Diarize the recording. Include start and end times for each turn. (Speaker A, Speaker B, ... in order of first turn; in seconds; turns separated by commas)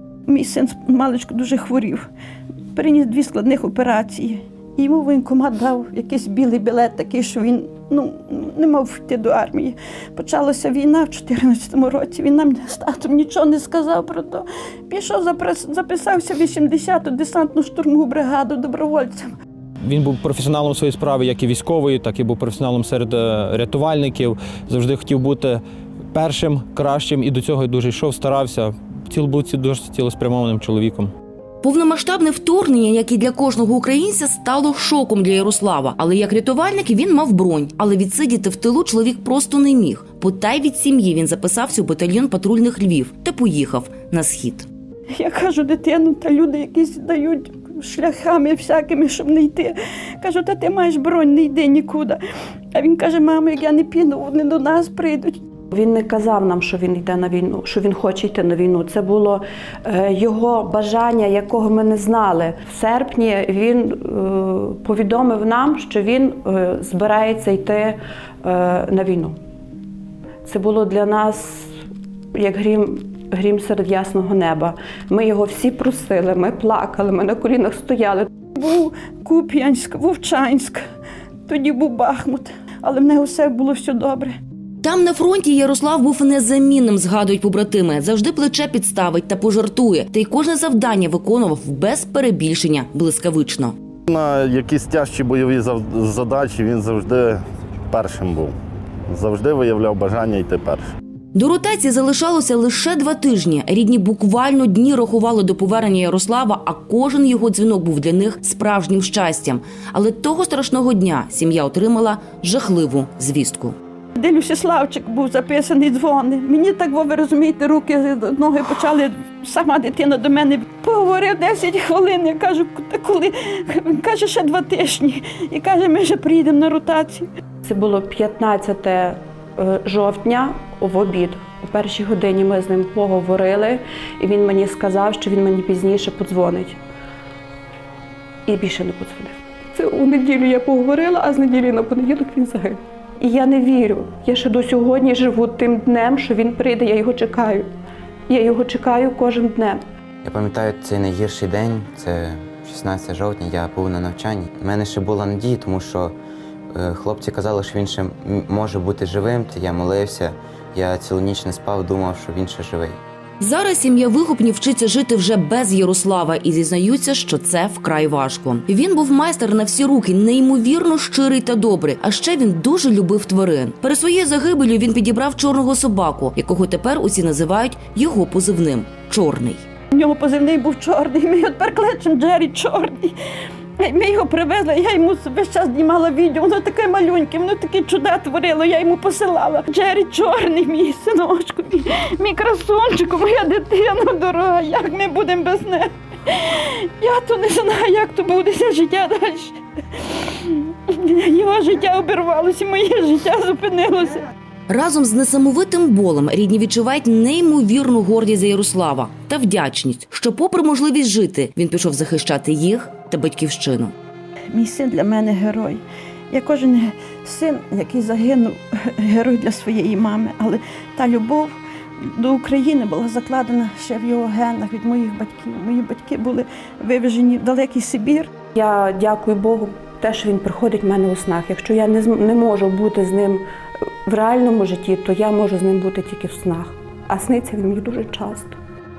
Speaker A: 0.3-2.0, Speaker A: 2.7-19.3, Speaker B: 19.8-25.6, Speaker B: 26.1-31.1, Speaker C: 31.6-44.7, Speaker A: 45.1-52.2, Speaker A: 52.7-55.4, Speaker D: 55.7-69.3, Speaker D: 70.4-71.7, Speaker D: 72.3-78.3, Speaker A: 78.5-80.8, Speaker A: 81.5-84.3, Speaker C: 84.8-93.7, Speaker E: 94.1-98.5, Speaker E: 99.1-100.8, Speaker C: 101.3-113.8, Speaker A: 114.2-127.3, Speaker D: 127.6-136.8, Speaker D: 138.4-147.7, Speaker D: 148.3-149.8, Speaker F: 150.2-156.1, Speaker F: 156.7-163.0, Speaker C: 163.4-179.6, Speaker A: 179.9-183.2, Speaker A: 183.8-204.2, Speaker C: 204.7-213.9, Speaker A: 214.5-228.3, Speaker D: 228.5-233.4, Speaker D: 234.1-238.5